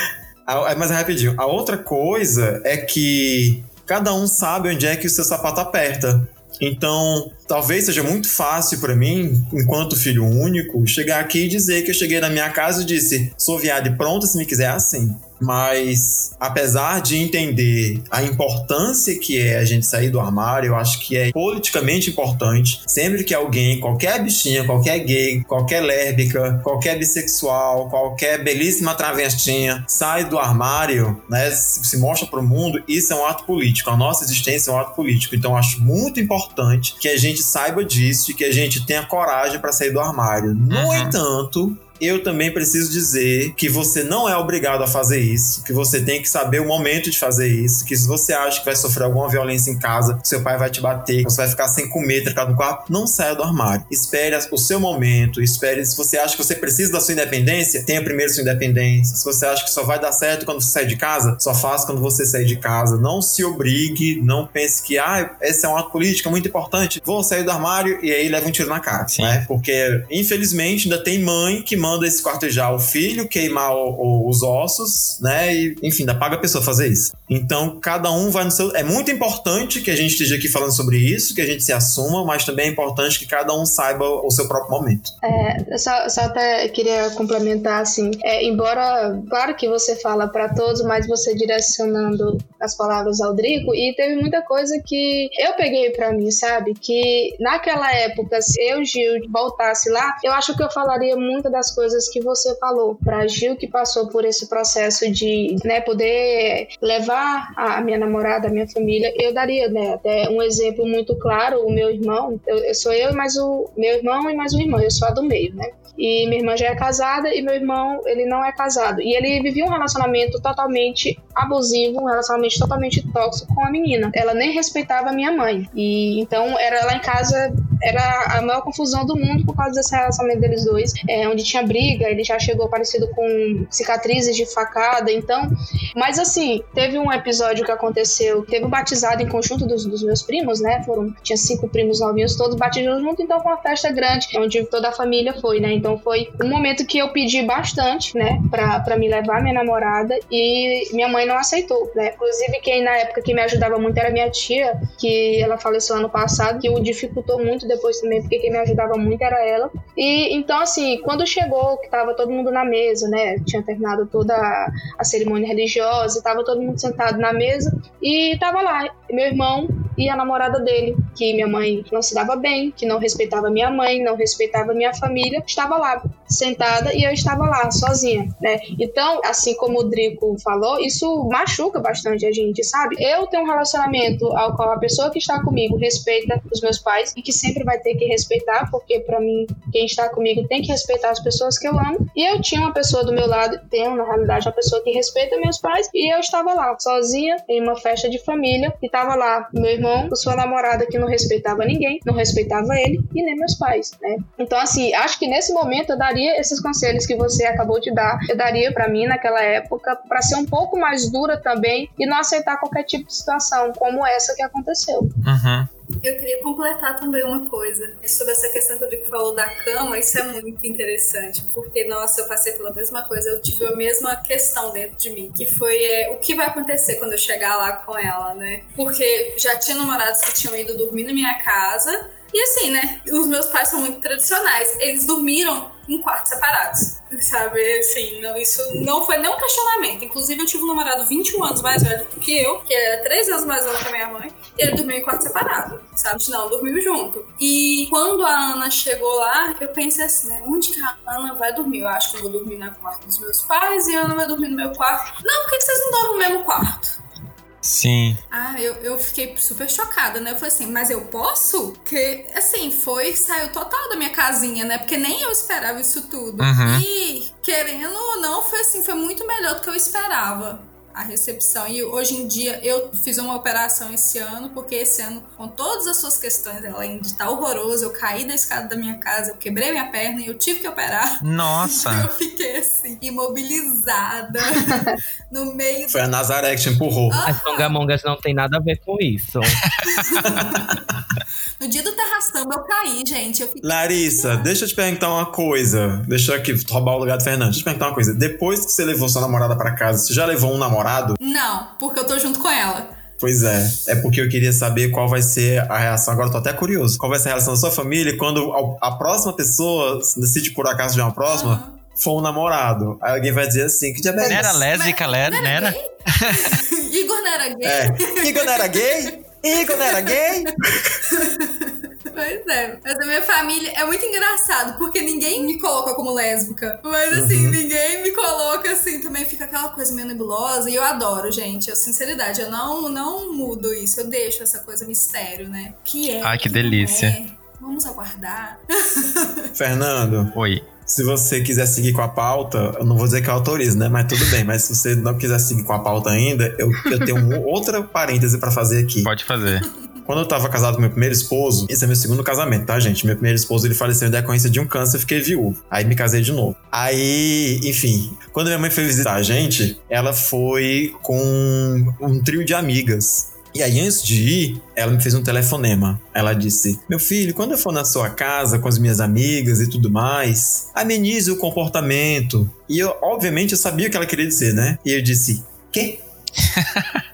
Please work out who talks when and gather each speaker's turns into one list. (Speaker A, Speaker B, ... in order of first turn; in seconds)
Speaker A: 0.5-85.1, 285.9-287.2, 290.2-290.9, 293.6-301.2, 303.2-314.7, 317.6-321.0, 327.1-327.6, 339.6-349.1, 350.1-376.0
Speaker B: 40.7-41.1, 69.1-69.4, 215.2-215.7, 257.6-258.2, 266.4-266.8, 281.2-282.1, 289.6-290.3, 314.2-316.6, 336.2-337.2, 340.4-340.7, 349.0-349.7, 376.5-377.0
Speaker C: 85.2-215.1, 284.7-284.9
Speaker D: 216.0-257.0, 258.3-286.1, 287.1-287.8, 289.9-290.5, 291.6-294.6, 301.2-303.0, 311.3-311.8, 314.3-339.5
Speaker E: 287.3-289.6